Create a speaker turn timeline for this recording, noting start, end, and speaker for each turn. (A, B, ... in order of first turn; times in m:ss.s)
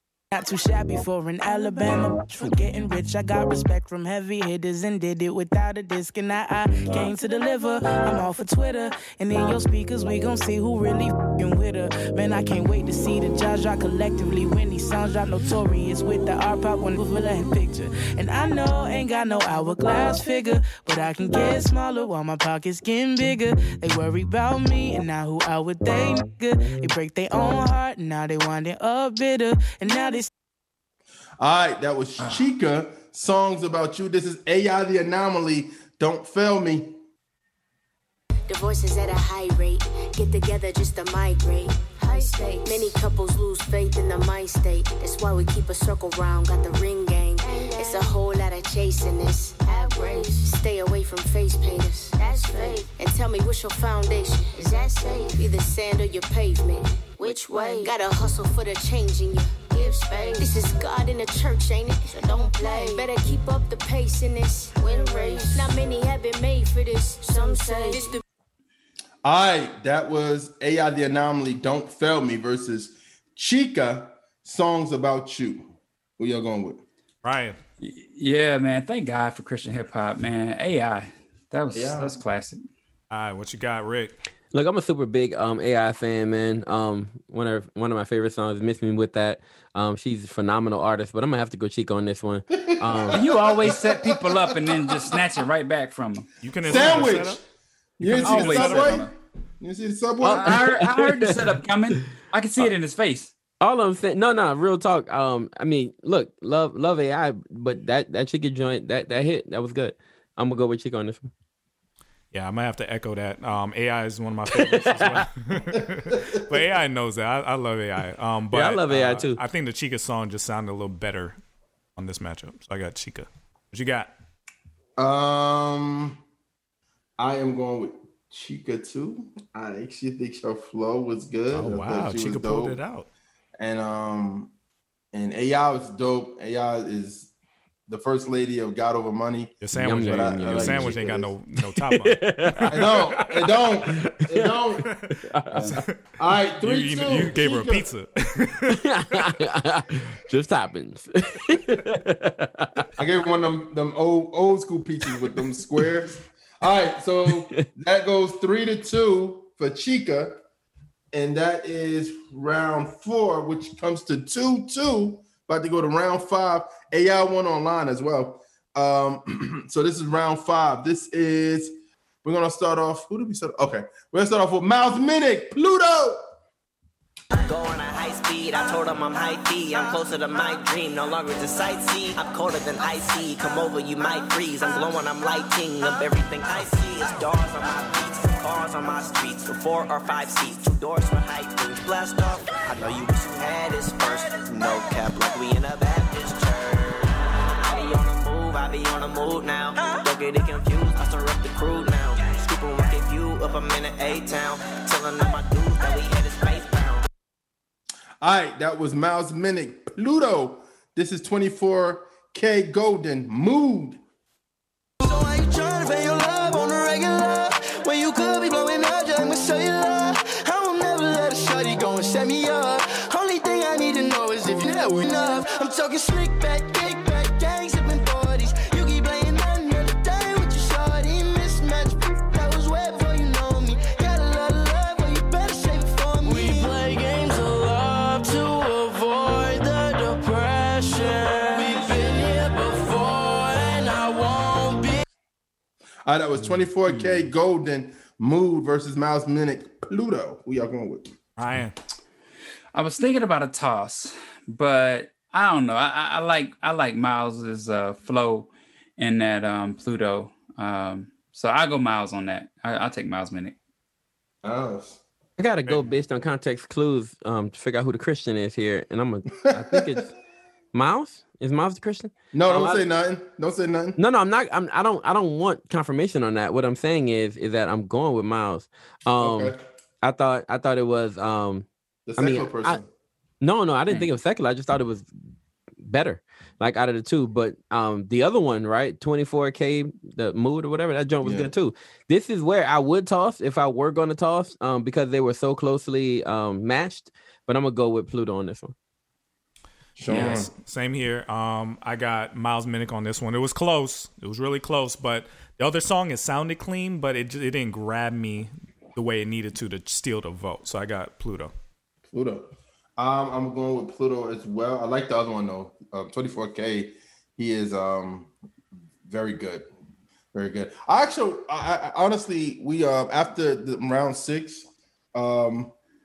0:00.3-0:30.3 A
0:31.4-0:37.0 B
0:38.5-1:08.2 C
1:09.2-1:16.8 B
1:17.2-1:17.6 D
1:17.8-1:22.6 E
1:21.7-1:22.1 B
1:23.1-1:24.1 D
1:24.5-1:33.2 F
1:32.8-1:34.9 B
1:33.2-1:36.3 E
1:36.4-1:37.4 D
1:36.6-1:37.4 B
1:38.0-1:39.0 D
1:38.0-1:40.6 B
1:38.2-1:39.1 E
1:40.2-1:41.4 F
1:40.3-1:43.3 E
1:43.6-1:51.2 F
1:52.3-2:01.4 D
1:54.6-1:55.2 F
1:54.6-1:56.6 B
1:58.5-1:59.4 F
2:02.0-2:04.1 D
2:05.0-2:06.2 B
2:07.2-2:12.8 B
2:11.5-2:13.1 D
2:13.6-2:14.5 B
2:15.1-2:17.3 B
2:17.9-2:21.3 B
2:19.6-2:23.5 D
2:19.8-2:21.1 F
2:21.8-2:22.8 F
2:22.7-2:24.9 B
2:24.0-2:25.8 F
2:25.6-2:25.9 D
2:26.2-2:27.9 B
2:26.6-2:28.8 D
2:28.7-2:32.8 F
2:33.0-2:40.4 B
2:41.1-2:56.2 B
2:57.4-3:27.0 G
3:28.2-3:34.0 B
3:35.0-3:57.2 H
3:58.8-4:05.0 H
4:06.0-4:11.1 B
4:06.4-4:07.3 D
4:11.4-4:11.7 D
4:12.7-4:23.5 E
4:24.4-4:25.0 B
4:25.4-4:30.1 F
4:29.6-4:30.0 B
4:30.7-4:32.8 F
4:32.3-4:34.0 B
4:34.0-4:41.6 F
4:39.2-4:39.6 B
4:42.1-4:42.9 B
4:42.2-4:42.8 F
4:43.4-4:45.1 F
4:45.8-4:58.7 F
4:51.2-4:51.5 B
5:00.0-5:00.5 B
5:00.1-5:11.5 D
5:12.1-5:18.3 B
5:19.0-5:19.7 B
5:20.3-5:25.7 B